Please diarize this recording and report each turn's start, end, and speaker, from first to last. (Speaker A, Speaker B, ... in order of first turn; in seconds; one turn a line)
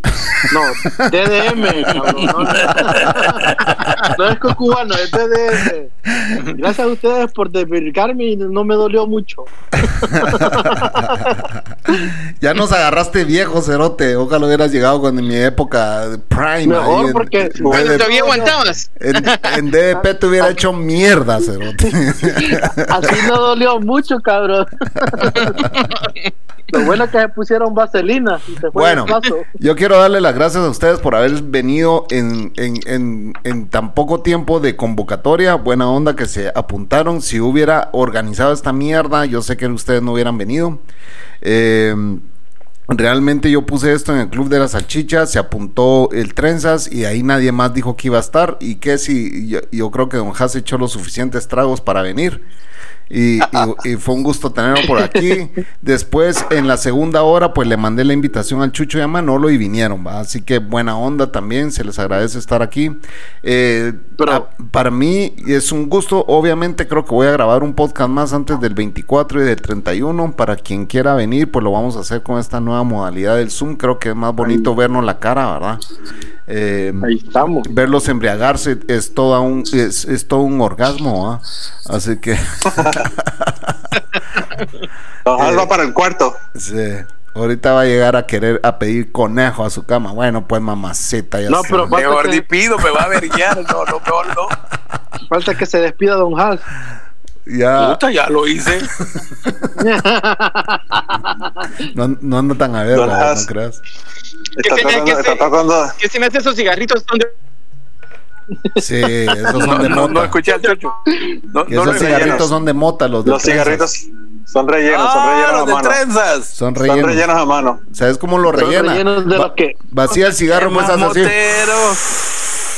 Speaker A: 0.2-1.3
Speaker B: 0.5-5.9
Speaker C: 1.9-3.6
Speaker A: 2.7-4.2
Speaker B: 6.5-11.4
Speaker A: 9.9-23.3
Speaker B: 16.6-18.6
Speaker D: 17.6-19.6
Speaker B: 21.9-25.5
Speaker D: 25.3-26.1
Speaker B: 26.7-29.4
Speaker A: 28.7-40.8
Speaker A: 41.4-42.2
Speaker A: 42.9-52.4
Speaker A: 53.1-75.8
Speaker B: 64.2-64.5
Speaker B: 74.4-74.7
Speaker A: 76.5-83.8
Speaker B: 77.0-77.7
Speaker E: 82.8-83.0
Speaker E: 85.2-86.4
Speaker A: 85.4-85.7
Speaker A: 86.5-92.0
Speaker B: 91.5-92.5
Speaker C: 91.9-94.5
Speaker B: 95.3-96.7
Speaker A: 97.5-98.0
Speaker C: 97.8-98.9
Speaker B: 99.8-101.7
Speaker A: 101.8-103.8
Speaker E: 102.9-103.5
Speaker E: 104.6-106.0
Speaker D: 104.6-107.3
Speaker B: 108.6-109.8
Speaker A: 108.8-110.4
Speaker C: 109.5-111.0
Speaker C: 111.5-112.5
Speaker A: 111.7-113.9
Speaker E: 111.9-112.5
Speaker E: 113.2-116.0
Speaker C: 114.9-116.5
Speaker A: 116.5-117.3
Speaker E: 116.8-117.8
Speaker A: 117.9-121.3
Speaker B: 118.5-119.8
Speaker C: 120.5-122.0